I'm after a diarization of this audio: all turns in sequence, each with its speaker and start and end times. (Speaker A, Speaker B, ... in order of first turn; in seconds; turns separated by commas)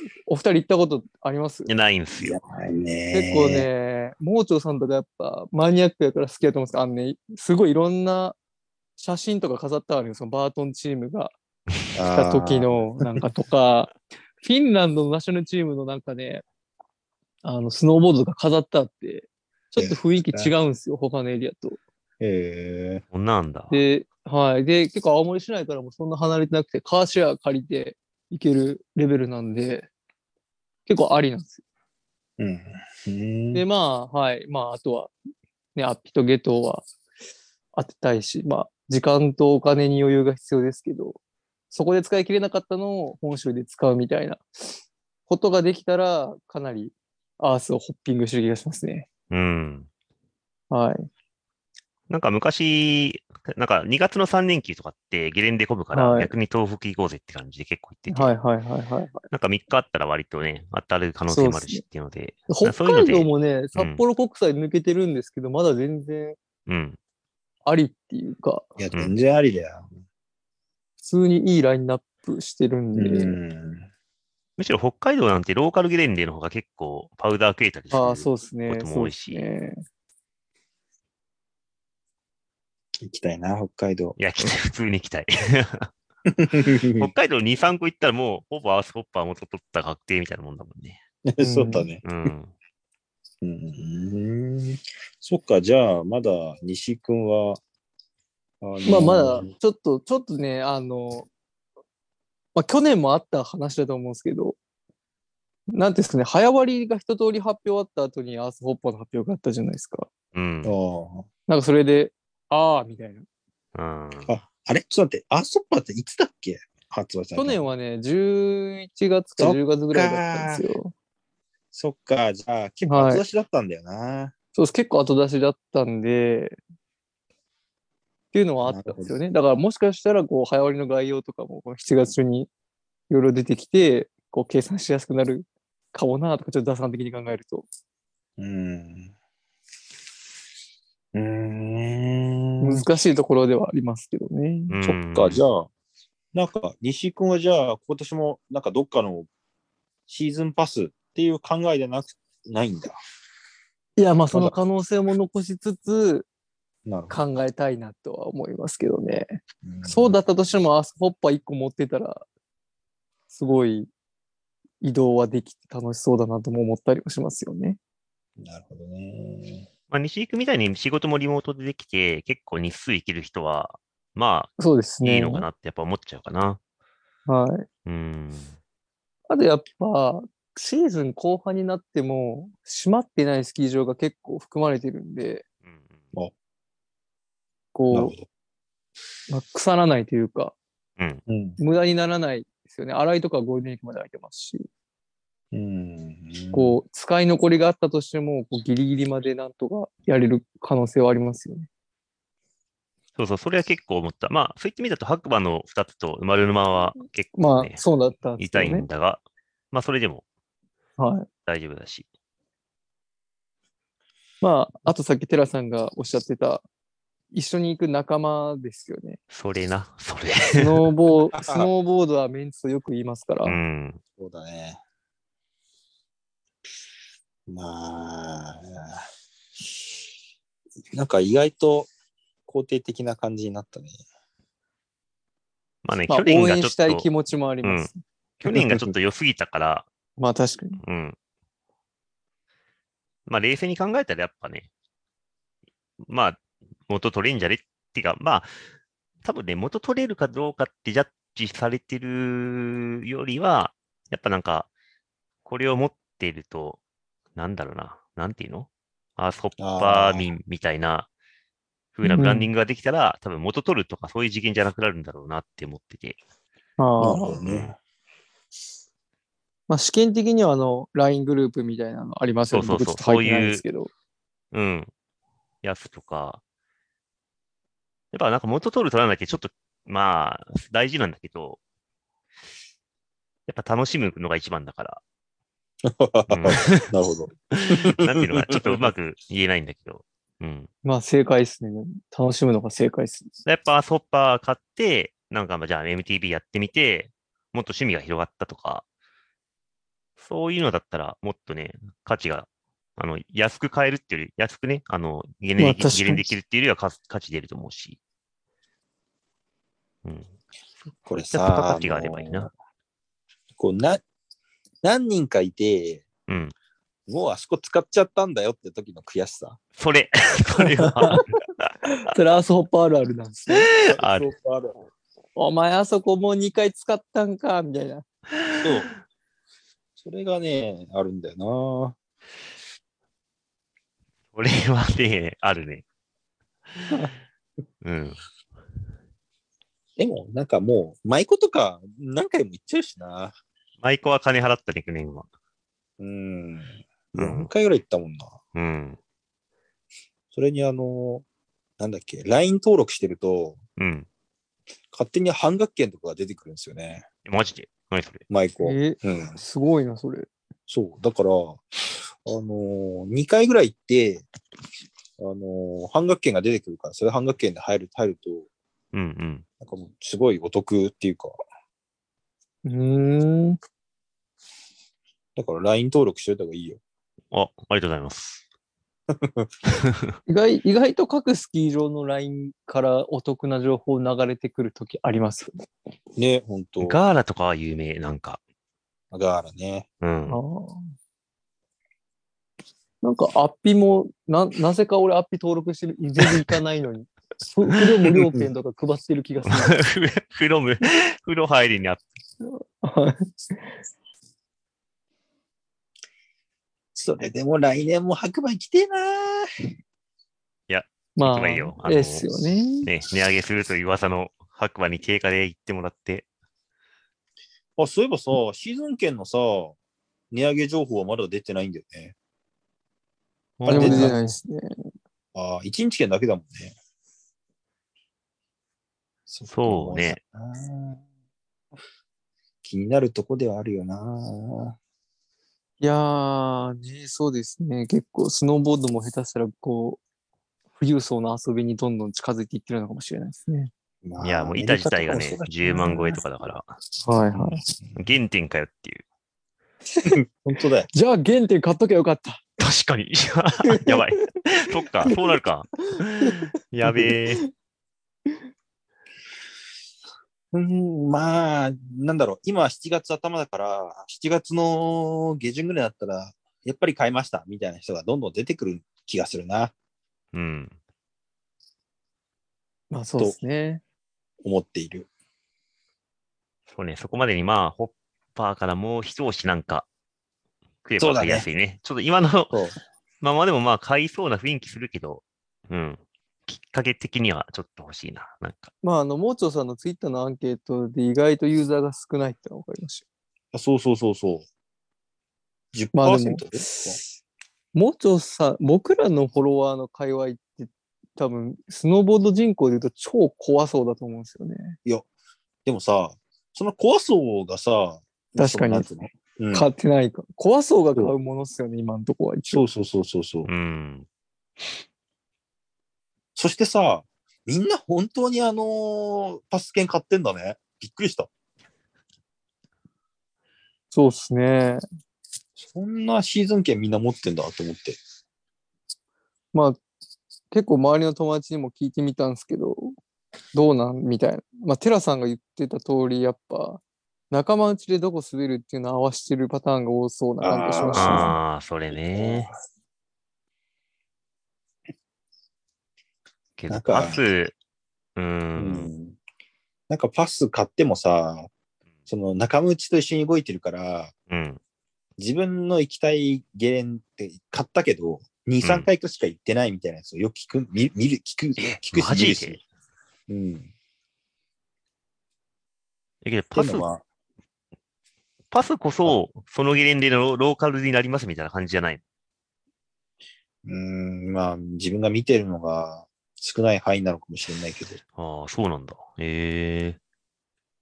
Speaker A: 0.3-1.7, Speaker B: 1.7-2.4, Speaker C: 2.2-3.7, Speaker A: 3.1-8.4, Speaker A: 9.0-11.3, Speaker C: 11.9-12.9, Speaker A: 12.1-16.4, Speaker A: 17.4-21.8, Speaker C: 19.8-20.5, Speaker C: 22.2-23.0, Speaker B: 23.1-23.8, Speaker A: 23.7-29.9, Speaker A: 30.9-31.6, Speaker C: 32.4-33.6, Speaker A: 33.5-35.1, Speaker A: 35.8-36.9, Speaker A: 37.8-41.2, Speaker A: 41.7-49.1, Speaker B: 49.3-49.9, Speaker A: 50.7-51.1, Speaker B: 52.1-58.3, Speaker A: 55.9-56.3, Speaker A: 58.1-59.3, Speaker B: 59.3-64.0, Speaker A: 61.3-61.8, Speaker A: 62.5-66.4, Speaker B: 66.7-67.0, Speaker A: 67.7-68.7, Speaker C: 68.8-69.9, Speaker A: 71.0-73.4, Speaker C: 73.0-73.9, Speaker B: 74.6-79.5, Speaker A: 77.9-79.8, Speaker C: 83.0-84.2, Speaker B: 84.2-85.9, Speaker C: 86.3-87.1, Speaker B: 86.8-91.0, Speaker C: 91.3-92.3, Speaker A: 91.4-91.9, Speaker B: 92.0-92.5, Speaker C: 93.4-97.6, Speaker C: 98.6-99.5, Speaker A: 98.8-101.3, Speaker A: 102.5-104.6, Speaker A: 105.7-110.1, Speaker B: 110.3-110.8, Speaker C: 110.6-111.3, Speaker A: 111.5-113.3, Speaker B: 113.8-114.3, Speaker C: 114.3-117.6, Speaker A: 117.3-120.9, Speaker C: 119.4-120.7, Speaker C: 121.7-124.3, Speaker A: 122.9-123.2, Speaker A: 124.5-126.6, Speaker A: 128.3-132.5, Speaker C: 128.6-129.2, Speaker A: 133.1-137.7, Speaker C: 138.4-139.1, Speaker C: 141.1-142.9, Speaker A: 142.6-144.8, Speaker B: 144.7-145.4, Speaker C: 144.8-145.7, Speaker C: 146.3-149.3, Speaker C: 150.1-153.0, Speaker A: 154.0-156.3, Speaker C: 156.9-157.2, Speaker A: 157.1-162.2, Speaker C: 159.6-160.2, Speaker A: 163.3-163.9, Speaker A: 164.8-167.8, Speaker C: 168.4-169.7, Speaker B: 169.9-176.6, Speaker A: 174.6-175.5, Speaker A: 177.3-177.7, Speaker B: 177.9-178.6, Speaker A: 179.3-185.4, Speaker B: 185.7-186.0, Speaker A: 187.7-188.1, Speaker C: 187.9-188.3, Speaker A: 189.3-190.5, Speaker C: 191.3-191.6, Speaker A: 191.6-194.7, Speaker C: 195.5-196.8, Speaker A: 196.5-201.7, Speaker B: 203.2-207.8, Speaker A: 207.4-208.9, Speaker B: 208.4-210.2, Speaker A: 211.0-211.3, Speaker B: 211.4-212.1, Speaker A: 214.4-216.7, Speaker A: 217.3-219.2, Speaker B: 219.3-220.9, Speaker A: 220.6-223.6, Speaker C: 221.3-221.7, Speaker B: 223.4-224.0, Speaker C: 224.2-224.8, Speaker C: 227.5-229.0, Speaker C: 229.6-229.9, Speaker C: 230.9-231.9, Speaker C: 232.5-234.0, Speaker B: 235.8-237.1, Speaker A: 236.1-238.0, Speaker B: 237.6-237.9, Speaker B: 238.4-239.9, Speaker C: 238.5-238.9, Speaker A: 240.2-240.8, Speaker B: 240.8-241.2, Speaker B: 243.3-244.7, Speaker B: 246.1-248.5, Speaker B: 249.2-254.7, Speaker B: 255.4-256.8, Speaker B: 257.4-261.1, Speaker C: 259.6-260.3, Speaker B: 261.9-266.2, Speaker A: 262.1-262.5, Speaker A: 266.8-267.4, Speaker C: 267.0-267.8, Speaker B: 267.4-267.7, Speaker A: 269.7-273.9, Speaker B: 272.5-273.6, Speaker B: 274.5-274.9, Speaker B: 275.6-276.4, Speaker B: 278.1-281.6, Speaker B: 283.5-285.0, Speaker C: 285.8-288.9, Speaker B: 286.3-286.9, Speaker B: 287.5-290.7, Speaker A: 290.9-293.3, Speaker B: 293.5-298.9, Speaker B: 300.2-308.0, Speaker A: 305.6-306.3, Speaker B: 310.1-310.3, Speaker B: 311.1-312.5, Speaker C: 311.1-312.5, Speaker C: 313.6-314.0, Speaker C: 314.8-316.1, Speaker B: 316.3-316.5, Speaker C: 317.1-319.6, Speaker B: 319.8-321.7, Speaker A: 320.8-321.2, Speaker A: 322.0-323.7, Speaker B: 323.5-324.3, Speaker C: 323.9-324.8, Speaker A: 325.4-328.1, Speaker B: 328.4-328.9, Speaker C: 328.6-328.9, Speaker C: 330.0-332.0, Speaker B: 334.3-335.8, Speaker B: 337.8-338.2, Speaker C: 340.0-343.3, Speaker B: 343.8-345.3, Speaker C: 346.0-348.4, Speaker B: 347.1-347.5, Speaker B: 348.6-349.0, Speaker C: 350.3-351.2, Speaker C: 351.8-353.6, Speaker B: 353.8-354.1, Speaker C: 354.9-357.1, Speaker B: 357.3-358.2, Speaker C: 358.3-359.4, Speaker A: 358.6-360.3, Speaker C: 360.7-364.3, Speaker C: 365.2-368.5, Speaker B: 368.9-369.4, Speaker C: 369.6-371.3, Speaker A: 372.6-373.6, Speaker C: 375.4-376.8, Speaker B: 377.3-378.4, Speaker C: 379.1-379.5, Speaker B: 379.8-380.1, Speaker A: 380.3-385.5, Speaker C: 386.2-387.0, Speaker B: 386.8-388.4, Speaker C: 389.1-389.9, Speaker B: 390.0-390.4, Speaker A: 390.3-390.9, Speaker A: 393.0-399.8, Speaker B: 399.5-402.0, Speaker A: 402.4-403.8, Speaker C: 406.9-409.5, Speaker B: 410.7-412.3, Speaker A: 411.2-412.9, Speaker B: 412.8-416.3, Speaker C: 417.8-419.8, Speaker C: 420.3-422.1, Speaker B: 423.6-424.2, Speaker C: 423.6-424.2, Speaker A: 423.7-424.7, Speaker C: 425.3-426.8, Speaker C: 429.3-431.0, Speaker B: 429.5-430.2, Speaker C: 432.6-434.8, Speaker A: 435.8-440.0, Speaker A: 440.8-443.7, Speaker C: 444.0-446.2, Speaker B: 444.2-446.7, Speaker A: 447.0-447.6, Speaker C: 447.3-448.0, Speaker B: 448.0-449.0, Speaker C: 450.1-450.9, Speaker A: 450.9-452.4, Speaker B: 452.6-457.4, Speaker A: 453.7-454.0, Speaker A: 455.1-455.4, Speaker A: 455.9-456.4, Speaker A: 456.9-457.5, Speaker C: 460.5-469.7, Speaker B: 470.3-470.8, Speaker A: 472.9-473.8, Speaker C: 474.4-475.1, Speaker B: 476.7-479.9, Speaker B: 480.9-482.6, Speaker C: 481.0-481.5, Speaker C: 482.5-482.8, Speaker B: 483.2-488.7, Speaker A: 488.8-493.0, Speaker C: 493.5-494.5, Speaker C: 495.7-497.0, Speaker A: 495.9-497.0, Speaker A: 497.7-504.8, Speaker C: 505.6-509.7, Speaker A: 508.4-508.9, Speaker A: 509.5-512.6, Speaker C: 512.5-513.5, Speaker B: 513.5-514.1, Speaker C: 516.4-521.3, Speaker A: 523.9-524.8, Speaker C: 525.6-528.0, Speaker A: 529.5-529.8, Speaker A: 530.5-533.0, Speaker A: 533.5-541.4, Speaker C: 540.4-541.4, Speaker B: 540.9-542.5, Speaker C: 542.1-542.6, Speaker B: 546.6-547.5, Speaker C: 546.7-547.2, Speaker B: 548.2-548.9, Speaker C: 548.6-549.2, Speaker C: 549.9-551.5, Speaker C: 552.1-554.1, Speaker B: 554.3-554.6, Speaker C: 555.2-562.6, Speaker B: 558.6-558.9, Speaker B: 561.6-562.6, Speaker C: 563.3-563.7, Speaker B: 566.2-566.9, Speaker C: 566.5-567.0, Speaker B: 568.5-572.0, Speaker C: 573.6-578.0, Speaker B: 578.1-580.0